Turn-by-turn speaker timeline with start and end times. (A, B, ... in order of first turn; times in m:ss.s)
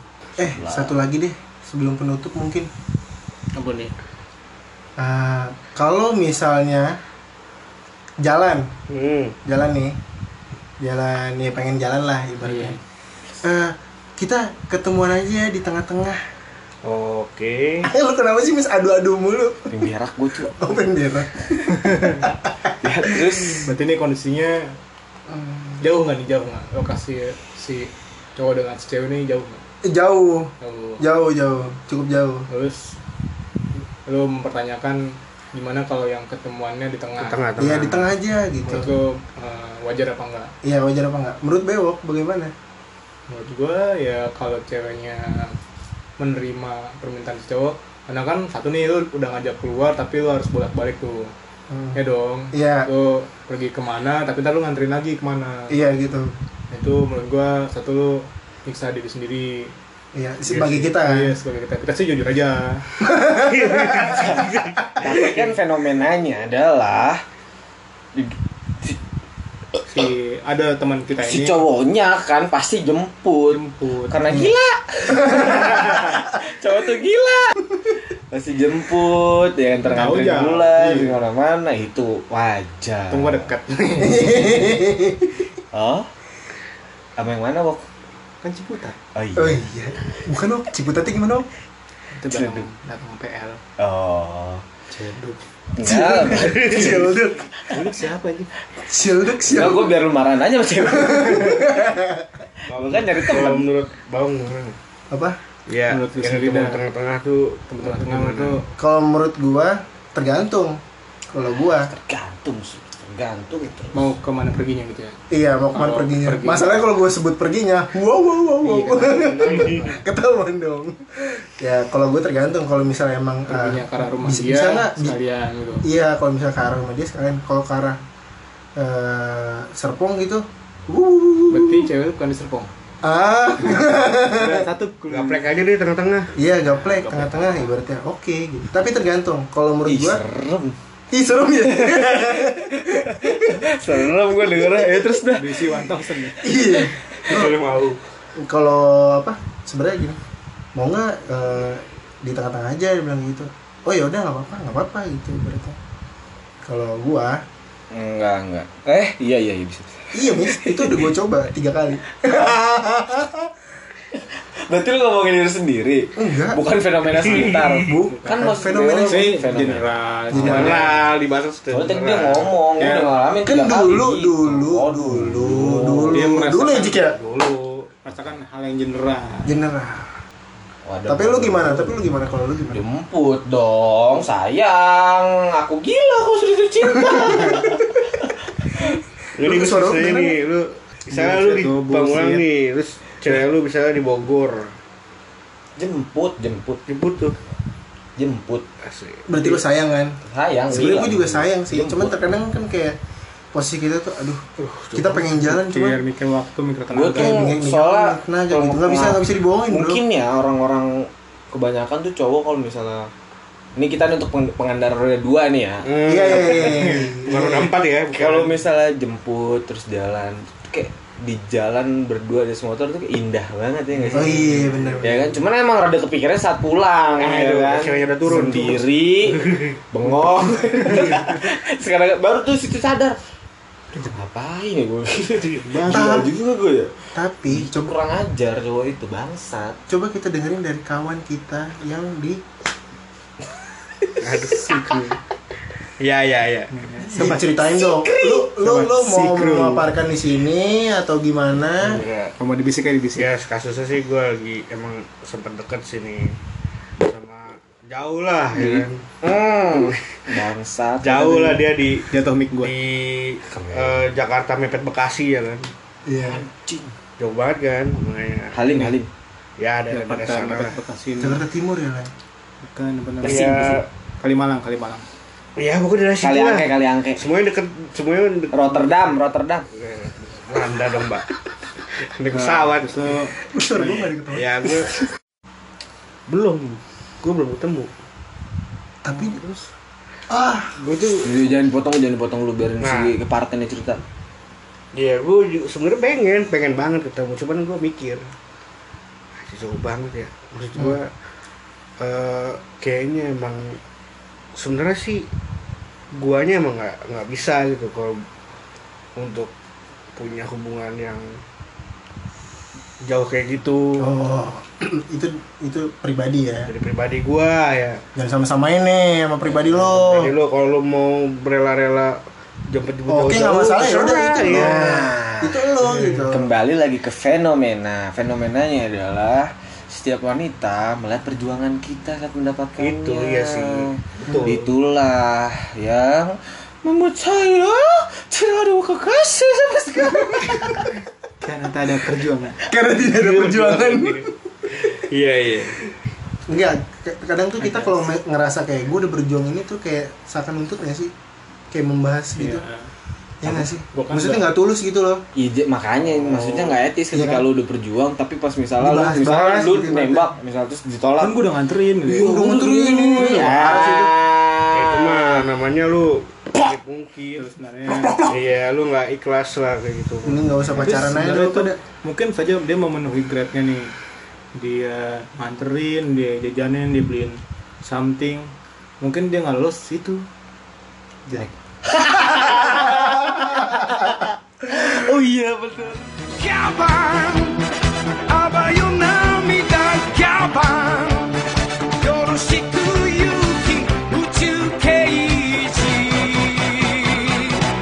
0:00.4-0:02.7 A
0:00.5-0:01.0 B
0:03.5-0:03.9 C
0:05.0-0:06.9 A
0:08.2-0:08.7 A
0:08.9-0:09.4 D
0:09.4-0:10.0 A
0:10.8-0:12.8 A
0:12.4-0:12.8 C
0:13.4-0:16.2 A
0:16.8-0:17.9 D
0:17.8-0:19.7 A
0:19.7-0:20.6 B
0:20.5-0:23.6 A
0:21.6-0:22.3 C
0:22.8-0:23.7 B
0:23.6-0:24.8 C
0:25.3-0:25.8 A
0:25.8-0:29.6 C
0:29.8-0:32.5 A
0:30.6-0:31.0 C
0:32.5-0:33.0 C
0:34.0-0:37.4 C
0:37.2-0:38.1 D
0:37.6-0:38.9 A
0:38.6-0:40.5 C
0:40.6-0:42.5 A
0:43.3-0:45.6 C
0:46.2-0:51.3 C
0:51.7-0:52.0 A
0:51.9-0:55.8 C
0:52.5-0:52.9 A
0:55.7-0:56.3 A
0:56.7-0:59.7 C
1:00.1-1:01.3 A
1:00.4-1:02.8 C
1:03.0-1:04.3 A
1:03.4-1:05.5 D
1:04.2-1:04.4 B
1:05.0-1:07.2 B
1:08.1-1:09.0 B
1:09.9-1:11.6 C
1:11.2-1:17.6 B
1:13.5-1:14.3 C
1:15.2-1:15.8 A
1:18.3-1:23.5 B
1:19.9-1:21.2 C
1:23.1-1:24.5 C
1:24.0-1:25.4 A
1:25.7-1:26.1 B
1:27.2-1:27.8 B
1:28.4-1:29.0 C
1:29.1-1:29.6 B
1:29.4-1:31.5 A
1:32.1-1:33.6 C
1:32.3-1:32.7 B
1:33.8-1:34.6 B
1:34.9-1:35.4 C
1:35.7-1:37.8 B
1:35.8-1:37.5 A
1:36.3-1:37.1 D
1:37.7-1:38.5 C
1:38.7-1:39.9 A
1:39.4-1:41.9 B
1:40.8-1:42.4 A
1:42.6-1:43.7 B
1:42.7-1:44.8 D
1:45.1-1:45.4 A
1:45.7-1:48.6 D
1:45.9-1:46.8 C
1:47.7-1:48.7 C
1:48.8-1:50.8 A
1:51.3-1:51.9 A
1:51.7-1:54.1 B
1:53.9-1:55.2 C
1:55.3-2:05.2 A
1:55.7-1:56.8 C
1:58.6-2:00.0 C
1:59.4-1:59.8 D
2:03.5-2:05.9 C
2:05.8-2:08.0 A
2:08.8-2:11.9 A
2:11.5-2:12.7 C
2:13.0-2:14.7 A
2:13.7-2:15.6 C
2:15.1-2:16.3 D
2:16.3-2:20.2 A
2:16.7-2:17.7 C
2:19.8-2:20.8 B
2:21.1-2:23.7 A
2:21.6-2:25.8 B
2:25.3-2:26.7 C
2:26.4-2:27.6 A
2:27.2-2:28.0 D
2:28.4-2:30.2 A
2:30.8-2:35.8 A
2:36.6-2:37.4 A
2:37.9-2:41.1 B
2:40.1-2:43.5 A
2:44.1-2:50.9 B
2:46.2-2:46.6 A
2:47.0-2:47.9 D
2:47.2-2:49.3 A
2:48.1-2:51.0 C
2:50.3-2:52.5 D
2:50.3-2:50.8 A
2:51.7-2:56.3 B
2:52.8-2:53.1 C
2:53.4-2:57.2 A
2:56.1-2:57.0 C
2:57.0-2:57.9 D
2:58.0-2:59.6 C
2:59.4-3:00.1 A
3:00.8-3:02.0 B
3:01.1-3:02.8 A
3:02.7-3:08.9 B
3:07.0-3:07.7 A
3:09.4-3:14.7 D
3:09.4-3:10.4 A
3:11.1-3:12.4 C
3:15.8-3:16.8 B
3:16.9-3:17.4 D
3:18.2-3:18.6 B
3:18.8-3:19.3 D
3:19.3-3:23.0 A
3:20.2-3:22.2 B
3:23.5-3:26.0 A
3:24.6-3:25.2 D
3:25.2-3:27.5 C
3:26.9-3:33.1 B
3:27.2-3:30.0 A
3:33.8-3:36.6 B
3:35.8-3:38.5 D
3:36.0-3:37.7 A
3:36.7-3:37.2 C
3:38.1-3:53.2 B
3:43.9-3:44.3 D
3:44.1-3:45.2 A
3:47.2-3:49.7 D
3:48.3-3:48.6 C
3:50.9-3:51.2 D
3:54.0-3:59.8 B
3:55.4-3:55.7 D
3:55.6-3:56.3 C
3:55.9-3:56.3 A
3:57.1-3:57.9 A
3:59.9-4:02.4 A
4:04.2-4:04.7 D
4:04.5-4:05.2 C
4:06.0-4:07.3 D
4:06.7-4:07.8 C
4:07.0-4:12.0 A
4:08.5-4:09.9 C
4:11.8-4:12.3 D
4:12.4-4:13.3 C
4:13.2-4:16.4 D
4:17.0-4:19.1 D
4:18.5-4:21.6 B
4:19.7-4:20.3 D
4:21.0-4:22.1 D
4:22.0-4:22.7 C
4:22.6-4:25.7 D
4:23.5-4:24.0 B
4:26.0-4:26.4 A
4:26.2-4:26.9 B
4:27.2-4:28.8 D
4:28.5-4:29.1 B
4:29.6-4:30.8 D
4:29.9-4:31.4 C
4:31.2-4:32.1 A
4:32.6-4:33.6 C
4:33.2-4:33.8 B
4:33.2-4:33.8 D
4:34.2-4:35.0 C
4:35.6-4:39.1 D
4:36.2-4:37.2 B
4:38.5-4:39.7 B
4:39.7-4:41.3 D
4:41.9-4:43.1 D
4:42.3-4:44.1 C
4:43.4-4:44.7 A
4:44.3-4:45.0 D
4:46.3-4:47.9 D
4:49.0-4:49.4 A
4:49.1-4:49.6 C
4:50.3-4:50.8 A
4:50.8-4:51.4 D
4:51.2-4:54.0 B
4:52.8-4:53.1 D
4:54.9-4:58.3 D
4:59.4-5:01.1 D
5:02.0-5:03.8 D
5:04.5-5:05.2 D
5:06.1-5:08.2 D
5:09.2-5:09.5 D
5:10.1-5:11.3 D
5:13.0-5:14.3 D
5:14.0-5:16.7 A
5:16.6-5:18.0 D
5:18.1-5:20.3 A
5:19.6-5:25.0 D
5:23.1-5:26.5 A
5:24.4-5:25.6 B
5:25.8-5:26.3 D
5:26.3-5:40.9 B
5:32.8-5:34.7 D
5:41.4-5:42.6 C
5:42.6-5:44.7 A
5:43.0-5:45.8 D
5:46.4-5:51.1 A
5:47.6-5:48.2 C
5:51.7-5:52.6 A
5:52.4-5:52.9 C
5:53.4-5:55.2 A
5:53.4-5:54.6 C
5:55.3-6:01.4 B
5:56.2-5:56.7 D
5:57.1-5:57.4 A
5:58.8-6:00.3 A
6:01.2-6:02.5 C
6:02.1-6:04.1 A
6:02.1-6:05.5 B
6:04.7-6:07.5 D
6:07.4-6:08.2 C
6:07.9-6:08.4 A
6:08.2-6:10.4 D
6:10.2-6:11.7 A
6:10.7-6:13.9 C
6:14.5-6:20.2 C
6:21.8-6:27.4 B
6:28.3-6:31.3 B
6:32.0-6:37.6 B